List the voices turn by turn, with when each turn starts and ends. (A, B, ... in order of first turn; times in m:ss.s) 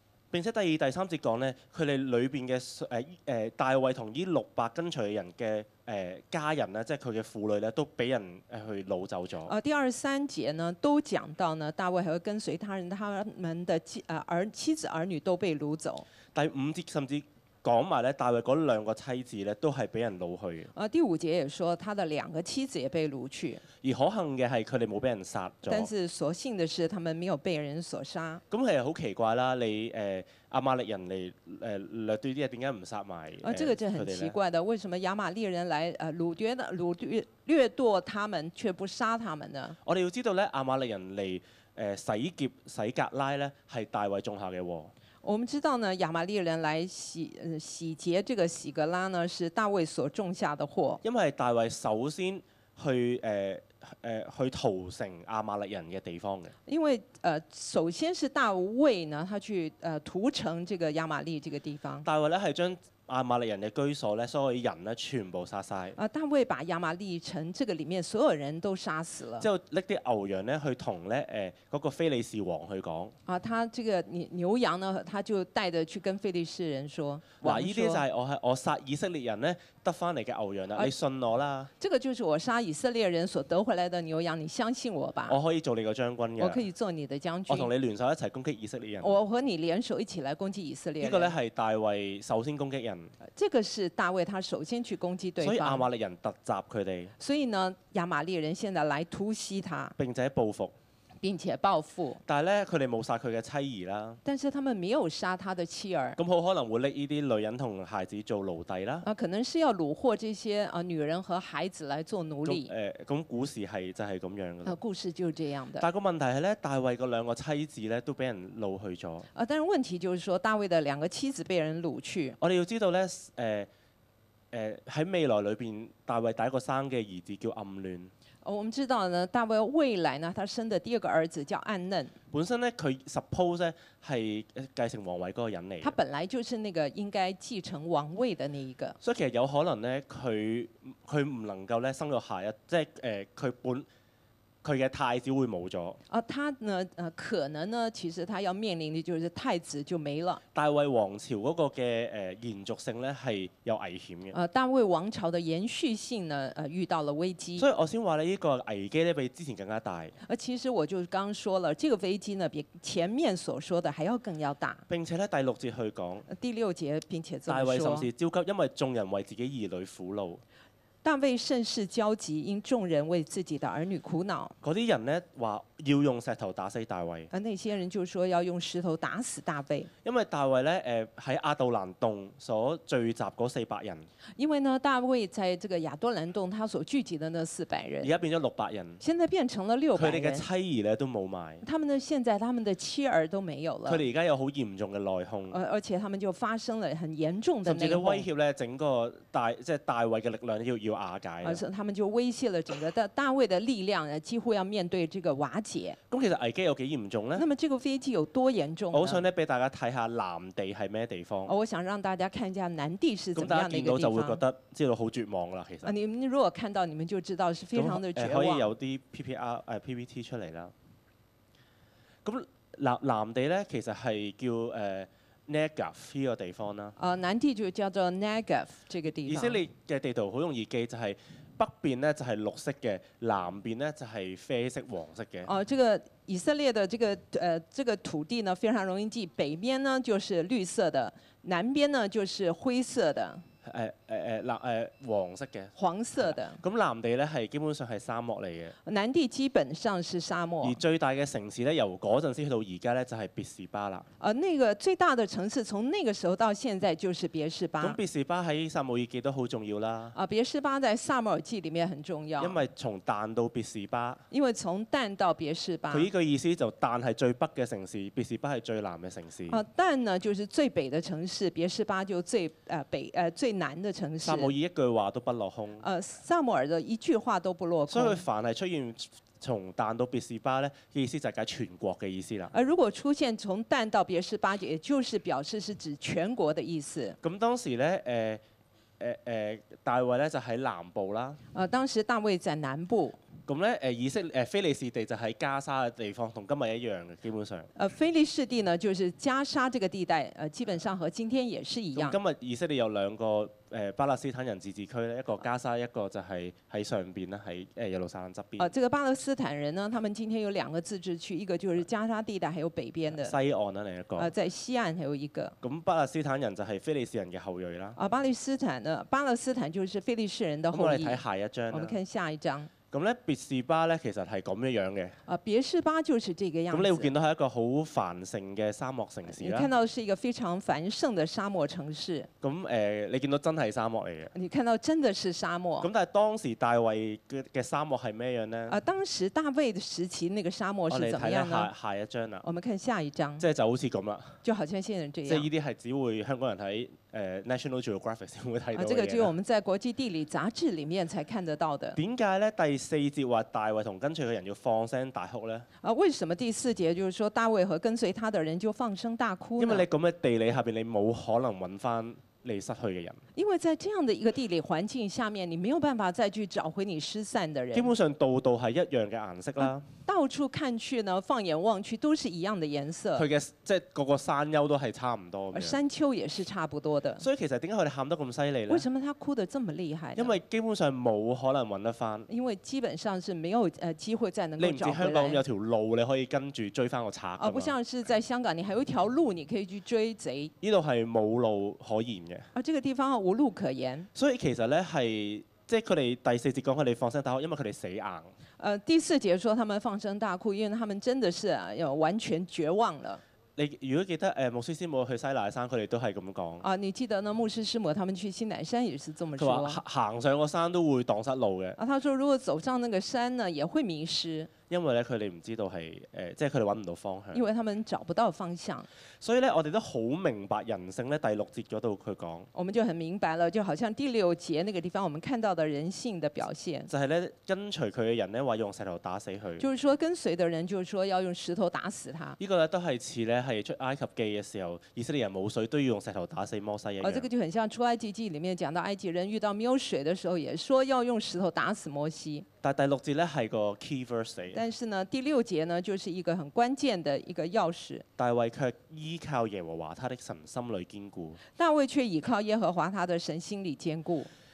0:00.3-0:09.5 A
0:09.4-0:16.0 B
0:16.3-0:20.7 A
0:20.7-0:23.6 B
0:23.8-0:25.9 A
0:25.7-0:28.4 B
0:28.5-0:34.4 A
0:33.4-0:39.8 B
0:39.8-0:44.9 A
0:45.2-0:51.0 B
0:51.0-0:56.5 A
0:56.6-1:02.0 B
1:02.0-1:06.0 A
1:06.0-1:09.5 B
1:09.4-1:13.1 A
1:13.3-1:18.0 B
1:17.4-1:21.7 A
1:21.8-1:25.4 B
1:25.3-1:26.6 A
1:26.4-1:27.7 B
1:27.5-1:29.1 A
1:29.0-1:31.3 B
1:31.0-1:33.1 A
1:33.3-1:35.8 B
1:35.4-1:37.1 A
1:37.2-1:39.9 B
1:40.0-1:40.7 A
1:41.2-1:42.2 B
1:42.3-1:44.2 A
1:44.2-1:46.2 B
1:46.2-1:49.0 A
1:49.0-1:52.7 B
1:52.4-1:54.8 A
1:54.6-1:55.9 B
1:55.8-1:59.2 A
1:59.3-2:02.4 B
2:02.4-2:03.7 A
2:04.5-2:08.1 A
2:08.4-2:12.1 B
2:12.3-2:16.0 A
2:15.8-2:19.0 B
2:19.0-2:23.9 A
2:24.6-2:26.0 A
2:26.1-2:30.4 B
2:30.5-2:34.3 A
2:34.3-2:37.6 B
2:37.6-2:40.1 A
2:40.2-2:44.8 B
2:44.9-2:46.3 A
2:46.3-2:48.1 B
2:47.5-2:50.4 A
2:51.0-2:54.5 B
2:54.6-2:57.3 A
2:57.3-2:59.9 B
3:00.0-3:04.1 A
3:04.4-3:08.1 B
3:08.0-3:09.0 A
3:09.0-3:10.4 B
3:09.9-3:11.6 A
3:11.6-3:14.0 B
3:13.8-3:15.6 A
3:15.5-3:18.2 B
3:17.6-3:21.6 A
3:21.4-3:26.0 B
3:26.1-3:27.4 A
3:27.4-3:29.2 B
3:28.9-3:31.5 A
3:31.4-3:34.4 B
3:33.4-3:35.9 A
3:35.8-3:38.7 B
3:37.7-3:40.7 A
3:42.2-3:46.9 A
3:47.0-3:49.6 B
3:49.3-3:55.5 A
3:55.4-4:03.4 B
4:03.6-4:08.7 A
4:05.8-4:06.6 B
4:08.8-4:10.8 B
4:10.6-4:14.1 A
4:14.2-4:18.0 B
4:17.8-4:20.1 A
4:20.1-4:22.6 B
4:22.4-4:24.2 A
4:24.3-4:26.1 B
4:25.9-4:29.6 A
4:29.5-4:34.5 B
4:34.2-4:35.8 A
4:35.8-4:38.2 B
4:37.9-4:42.5 A
4:42.5-4:47.2 B
4:47.2-4:48.4 A
4:49.0-4:51.4 A
4:51.5-4:53.2 B
4:53.5-4:57.7 A
4:57.8-5:02.2 B
5:02.0-5:08.7 A
5:08.6-5:13.4 B
5:13.1-5:14.3 A
5:14.2-5:15.5 B
5:15.6-5:18.0 A
5:18.0-5:22.7 B
5:20.7-5:22.0 A
5:22.9-5:25.2 A
5:25.3-5:27.1 B
5:26.7-5:29.7 A
5:29.3-5:32.3 B
5:32.4-5:34.3 A
5:34.3-5:35.9 B
5:35.8-5:38.8 A
5:38.7-5:41.7 B
5:40.9-5:42.4 A
5:42.4-5:43.4 B
5:43.4-5:44.4 A
5:44.4-5:45.5 B
5:45.2-5:49.3 A
5:48.7-5:52.0 B
5:52.0-5:55.7 A
5:55.8-5:59.8 B
5:59.6-6:03.2 A
6:03.3-6:07.9 B
6:07.7-6:09.9 A
6:09.6-6:13.3 B
6:13.1-6:15.8 A
6:15.5-6:17.2 B
6:17.2-6:18.9 A
6:18.7-6:20.3 B
6:20.1-6:22.3 A
6:22.3-6:25.4 B
6:24.6-6:27.8 A
6:27.4-6:30.5 B
6:30.6-6:32.5 A
6:32.5-6:34.1 B
6:34.1-6:38.3 A
6:38.6-6:43.2 B
6:43.6-6:46.6 A
6:46.6-6:49.8 B
6:49.4-6:51.8 A
6:51.8-6:54.5 B
6:54.7-6:57.4 A
6:57.3-6:58.9 B
6:59.2-7:02.5 A
7:02.5-7:06.9 B
7:06.9-7:09.7 A
7:09.6-7:12.4 B
7:12.4-7:17.3 A
7:17.0-7:22.4 B
7:22.6-7:24.6 A
7:24.5-7:28.0 B
7:28.2-7:31.4 A
7:31.6-7:34.3 B